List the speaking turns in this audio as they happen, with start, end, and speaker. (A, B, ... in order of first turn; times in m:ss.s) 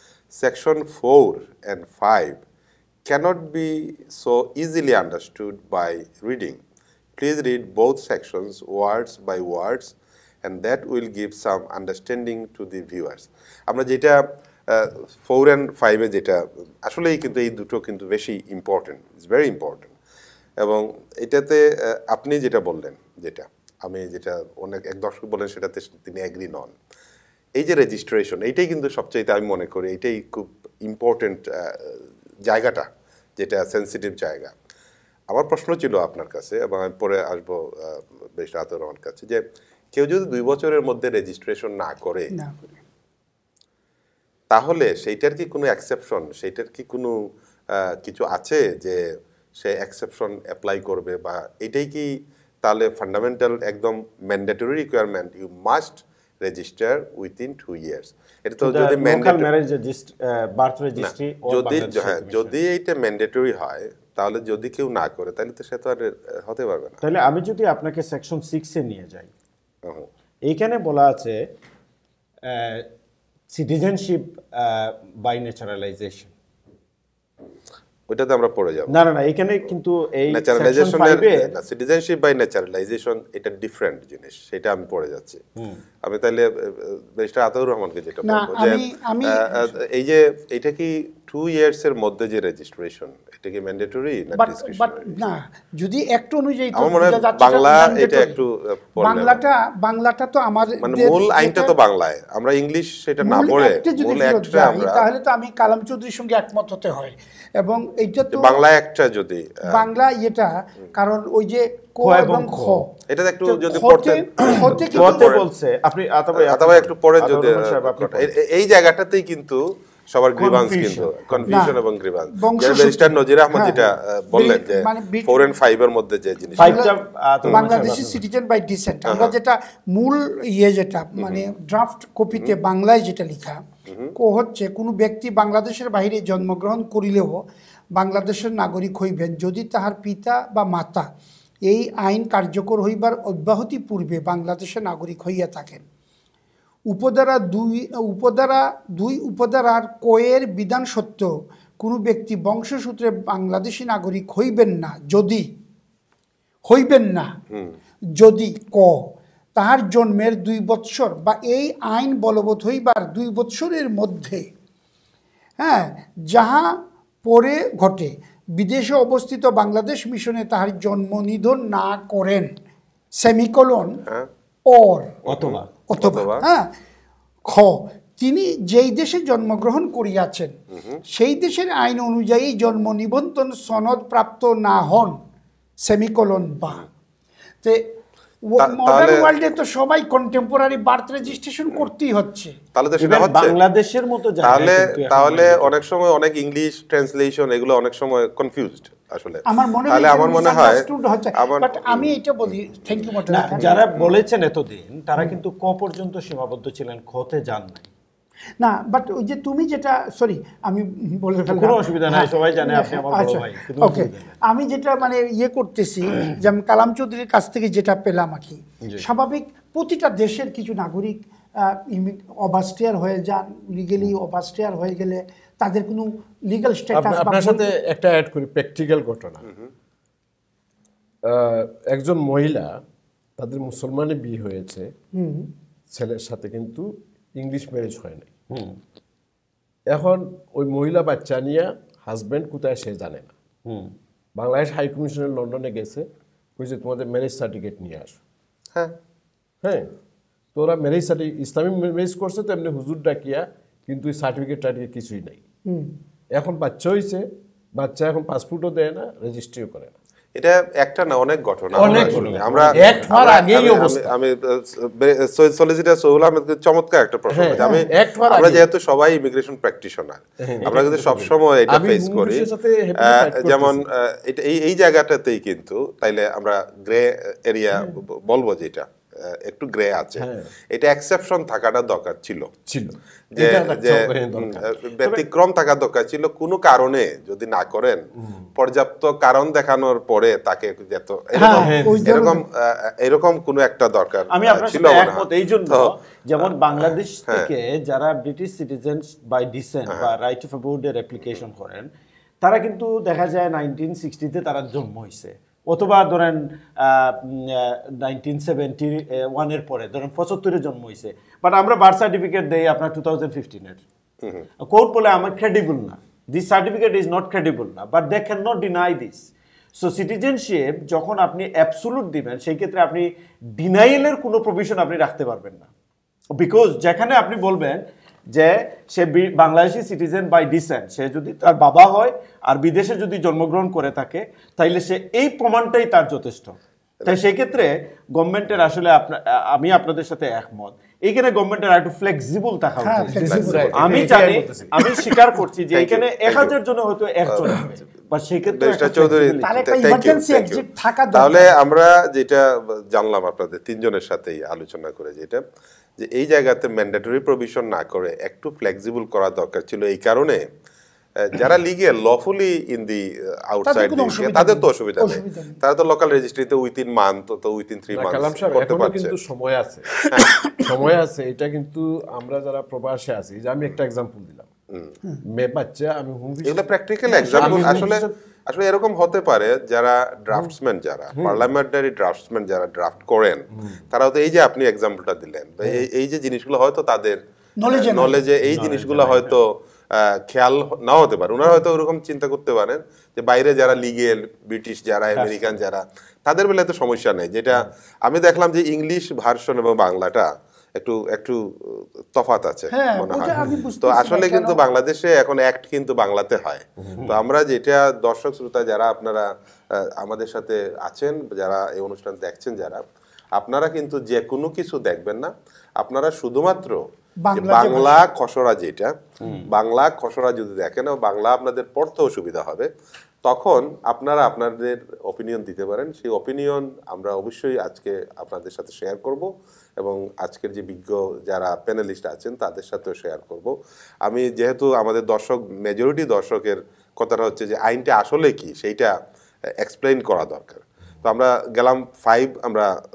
0:00.4-0:02.4 A
0:03.1-0:06.6 A
0:07.2-0:19.9 A
0:20.6-0:26.7 A
0:27.6-0:34.5 A
0:35.3-0:42.3 A
0:42.3-0:42.7 B
0:44.5-0:47.2 A
0:47.7-0:49.0 A
0:49.6-0:59.5 A
0:58.6-1:02.6 C
1:01.0-1:07.0 A
1:07.0-1:09.3 C
1:10.5-1:11.4 C
1:12.5-1:12.9 C
1:13.5-1:16.3 C
1:18.1-1:18.9 A
1:18.9-1:21.5 C
1:20.3-1:25.4 A
1:26.0-1:35.1 A
1:28.2-1:29.7 B
1:34.4-1:38.4 B
1:36.8-1:39.4 A
1:39.0-1:41.7 B
1:40.8-1:45.0 A
1:43.2-1:48.6 B
1:48.3-1:49.9 A
1:49.7-1:52.9 B
1:52.0-1:52.8 C
1:53.1-1:55.5 A
1:53.4-1:55.3 B
1:54.4-1:58.3 C
1:56.4-2:06.8 A
2:00.4-2:01.7 C
2:01.5-2:01.8 B
2:02.3-2:05.5 B
2:06.6-2:08.2 C
2:06.6-2:06.9 B
2:07.5-2:13.6 B
2:09.1-2:09.3 A
2:13.9-2:14.1 A
2:14.2-2:17.4 B
2:18.0-2:21.1 B
2:21.7-2:25.8 B
2:26.9-2:35.5 B
2:36.7-2:37.3 B
2:38.2-2:44.5 B
2:45.6-2:52.5 B
2:53.2-2:54.0 B
2:54.7-2:55.2 B
2:55.3-2:55.7 C
2:55.3-2:56.5 A
2:55.9-2:56.7 B
2:57.4-3:00.5 B
3:01.1-3:05.2 B
3:05.8-3:06.9 B
3:08.4-3:12.6 B
3:08.6-3:09.3 A
3:12.8-3:13.6 A
3:13.0-3:15.8 C
3:14.4-3:22.5 A
3:19.5-3:23.8 B
3:23.3-3:27.9 C
3:23.6-3:24.2 A
3:28.6-3:47.7 B
3:31.5-3:34.3 C
3:46.9-3:49.5 D
3:51.3-3:52.8 D
3:53.4-3:54.9 D
3:55.2-3:55.5 B
3:55.9-3:58.3 D
3:58.5-3:58.8 C
3:59.9-4:03.3 D
4:03.7-4:03.9 C
4:04.4-4:06.1 D
4:06.6-4:08.2 D
4:09.6-4:09.9 D
4:10.6-4:15.4 D
4:15.7-4:15.9 B
4:16.3-4:17.2 D
4:17.8-4:20.0 D
4:20.4-4:42.5 A
4:21.8-4:23.1 C
4:21.8-4:24.1 D
4:27.3-4:28.6 D
4:27.6-4:27.8 B
4:30.4-4:33.8 D
4:40.2-4:40.5 D
4:42.7-4:44.7 D
4:43.4-4:48.0 A
4:48.6-4:57.5 A
4:51.4-4:52.4 B
4:51.5-4:52.2 D
4:54.3-5:01.9 C
5:02.4-5:13.8 C
5:14.6-5:25.7 C
5:26.4-5:27.8 C
5:28.3-5:49.6 C
5:42.8-5:43.8 B
5:43.1-5:45.0 D
5:43.2-5:44.2 A
5:45.7-5:46.5 A
5:48.5-5:55.4 A
5:49.4-5:51.5 B
5:56.0-6:00.5 A
6:01.2-6:09.1 A
6:03.6-6:05.6 B
6:07.9-6:09.9 D
6:10.0-6:10.7 B
6:10.6-6:14.5 D
6:15.3-6:18.1 D
6:16.5-6:27.2 A
6:17.1-6:18.0 B
6:21.2-6:21.5 D
6:27.6-6:28.2 B
6:27.7-6:52.8 A
6:28.4-6:29.4 C
6:35.2-6:35.6 C
6:42.7-6:44.6 B
6:53.4-6:58.9 A
6:57.2-6:58.0 B
6:59.2-6:59.5 C
6:59.4-7:02.7 A
7:03.2-7:18.9 A
7:19.6-7:22.7 A